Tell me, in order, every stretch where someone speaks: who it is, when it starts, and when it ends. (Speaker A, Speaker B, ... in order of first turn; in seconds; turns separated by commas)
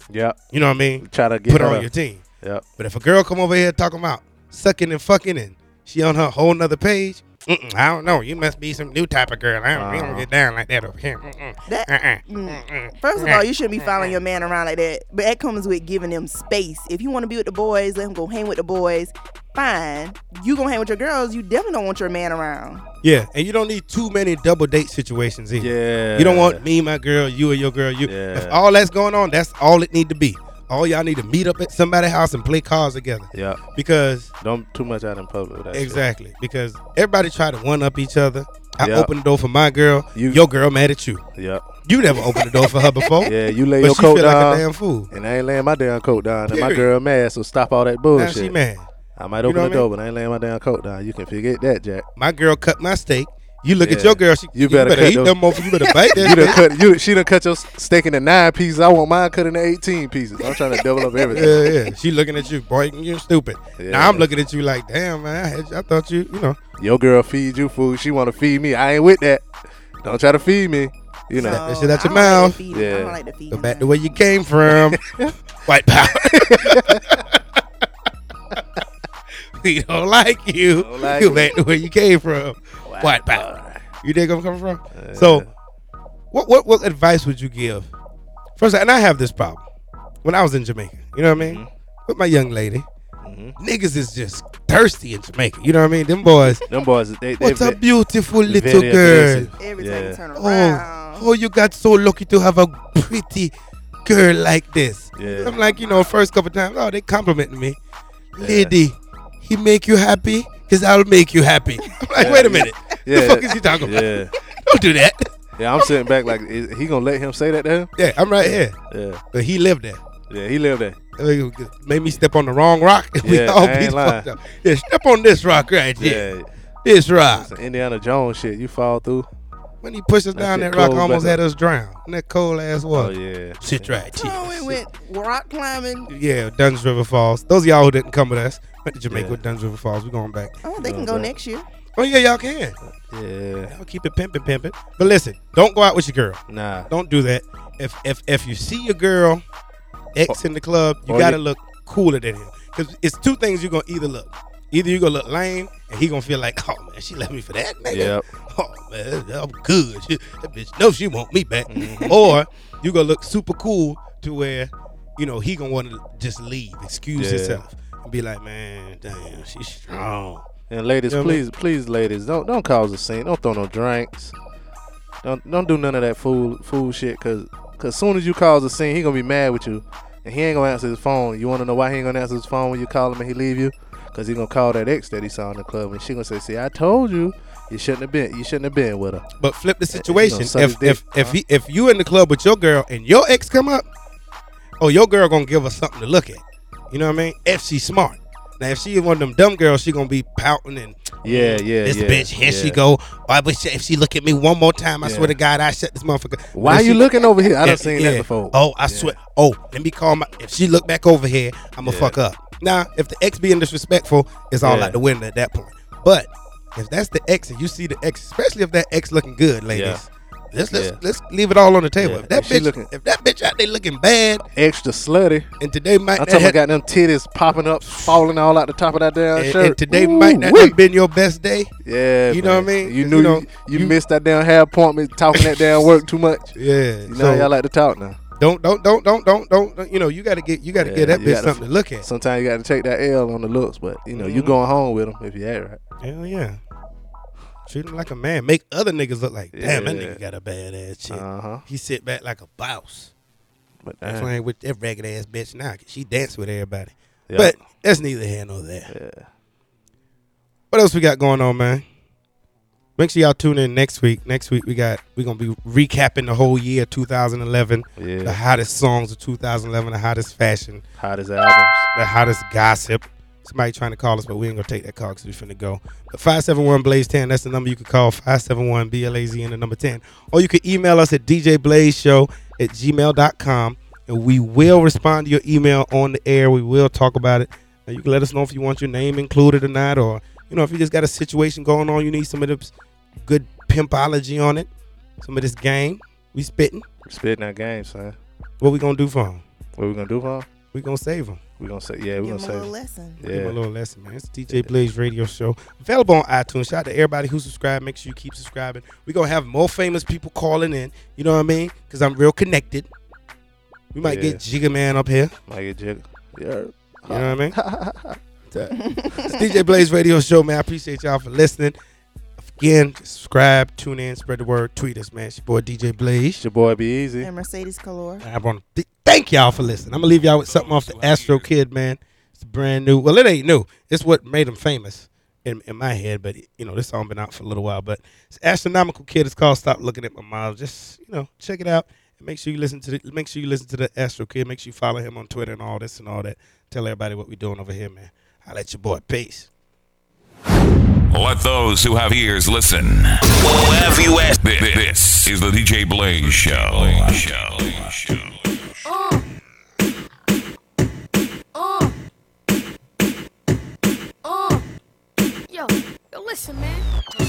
Speaker A: 0.1-0.4, Speaker B: 0.5-2.2, Speaker A: 1.0-1.9, Speaker B: 2.8-13.4, Speaker A: 9.7-10.3, Speaker C: 11.7-22.9, Speaker B: 23.0-34.3, Speaker A: 25.6-26.6, Speaker A: 28.1-28.6, Speaker A: 33.3-33.6, Speaker A: 34.4-36.0, Speaker B: 35.7-41.2, Speaker A: 38.8-39.1, Speaker A: 40.1-40.4, Speaker A: 41.4-41.7, Speaker B: 41.9-45.1, Speaker A: 43.2-48.5, Speaker B: 46.5-46.9, Speaker B: 48.2-48.9, Speaker A: 49.2-52.1, Speaker B: 49.5-49.9, Speaker B: 52.2-56.6, Speaker A: 53.8-55.5, Speaker C: 56.0-56.5, Speaker A: 56.1-61.7, Speaker C: 61.2-61.8, Speaker B: 61.3-66.6, Speaker A: 63.8-64.3, Speaker A: 66.8-69.5, Speaker A: 70.0-71.7, Speaker B: 71.4-72.6, Speaker C: 71.4-74.2, Speaker A: 72.7-73.2, Speaker B: 73.5-75.0, Speaker A: 74.7-75.3, Speaker B: 75.7-77.4, Speaker A: 76.1-77.2, Speaker B: 79.6-83.5, Speaker A: 80.8-81.6, Speaker A: 82.8-83.8, Speaker B: 84.0-85.5, Speaker A: 84.9-85.5, Speaker B: 86.3-87.9, Speaker B: 88.6-89.6, Speaker B: 90.2-92.9, Speaker A: 91.4-91.7, Speaker A: 93.2-93.6, Speaker B: 93.6-96.6, Speaker A: 96.4-97.8, Speaker B: 97.4-99.5, Speaker A: 98.5-100.2, Speaker C: 99.6-101.3, Speaker B: 100.3-103.5, Speaker B: 104.0-107.8, Speaker A: 105.2-105.6, Speaker B: 108.3-115.3, Speaker A: 108.4-108.8, Speaker A: 112.2-114.3, Speaker A: 115.6-119.2, Speaker B: 118.0-118.8, Speaker B: 119.3-120.0, Speaker A: 120.3-121.0, Speaker B: 121.1-126.3, Speaker A: 123.2-124.3, Speaker A: 126.0-126.5, Speaker B: 126.8-127.5, Speaker A: 127.3-129.3, Speaker B: 129.8-134.8, Speaker A: 130.3-131.4, Speaker A: 132.9-134.0, Speaker C: 134.1-136.1, Speaker B: 136.1-140.6, Speaker A: 139.1-139.4, Speaker C: 140.6-141.7, Speaker A: 140.8-141.3, Speaker B: 142.0-142.8, Speaker A: 143.1-143.7, Speaker B: 143.7-149.4, Speaker A: 146.5-146.9, Speaker B: 150.1-170.5, Speaker A: 151.1-151.4, Speaker A: 157.9-158.2, Speaker A: 161.7-162.3, Speaker A: 167.2-167.6, Speaker A: 170.7-174.3, Speaker B: 171.1-171.4, Speaker A: 175.2-189.2, Speaker B: 189.4-193.9, Speaker A: 189.9-191.4, Speaker B: 194.8-224.4, Speaker A: 201.2-202.8, Speaker A: 205.0-205.4, Speaker A: 206.5-209.2, Speaker A: 211.8-212.2, Speaker A: 214.6-215.0, Speaker A: 219.7-220.0, Speaker A: 220.7-221.0, Speaker A: 222.0-222.9, Speaker A: 224.6-225.5, Speaker B: 225.6-226.6, Speaker A: 226.2-230.8, Speaker B: 229.4-231.7, Speaker A: 231.8-236.6, Speaker B: 232.3-234.0, Speaker B: 236.6-237.5, Speaker A: 237.1-238.2, Speaker B: 238.4-242.1, Speaker A: 240.8-245.8, Speaker B: 244.2-244.5, Speaker B: 246.0-246.6, Speaker B: 247.7-253.1, Speaker A: 249.5-250.2, Speaker A: 251.1-251.7, Speaker A: 253.8-254.3, Speaker B: 254.1-258.9, Speaker A: 257.3-257.6, Speaker A: 258.9-259.3, Speaker B: 260.7-261.9, Speaker B: 263.0-270.8, Speaker A: 268.0-268.4, Speaker A: 271.0-271.9, Speaker B: 271.9-296.9, Speaker A: 297.1-298.2, Speaker B: 298.6-299.4, Speaker A: 299.8-300.5, Speaker B: 300.7-301.4, Speaker A: 301.6-303.6, Speaker C: 302.2-303.2, Speaker B: 303.3-312.9, Speaker A: 304.5-304.8, Speaker B: 313.9-315.3, Speaker A: 314.0-314.4, Speaker A: 315.5-318.2, Speaker B: 317.1-317.6, Speaker B: 318.5-321.8, Speaker C: 318.8-319.6, Speaker B: 322.4-326.4, Speaker A: 326.4-327.3, Speaker C: 327.2-328.2, Speaker B: 328.2-349.5, Speaker D: 330.2-331.5, Speaker D: 351.1-358.3, Speaker E: 358.8-359.2, Speaker E: 361.5-361.9, Speaker E: 364.2-364.6, Speaker E: 365.5-366.9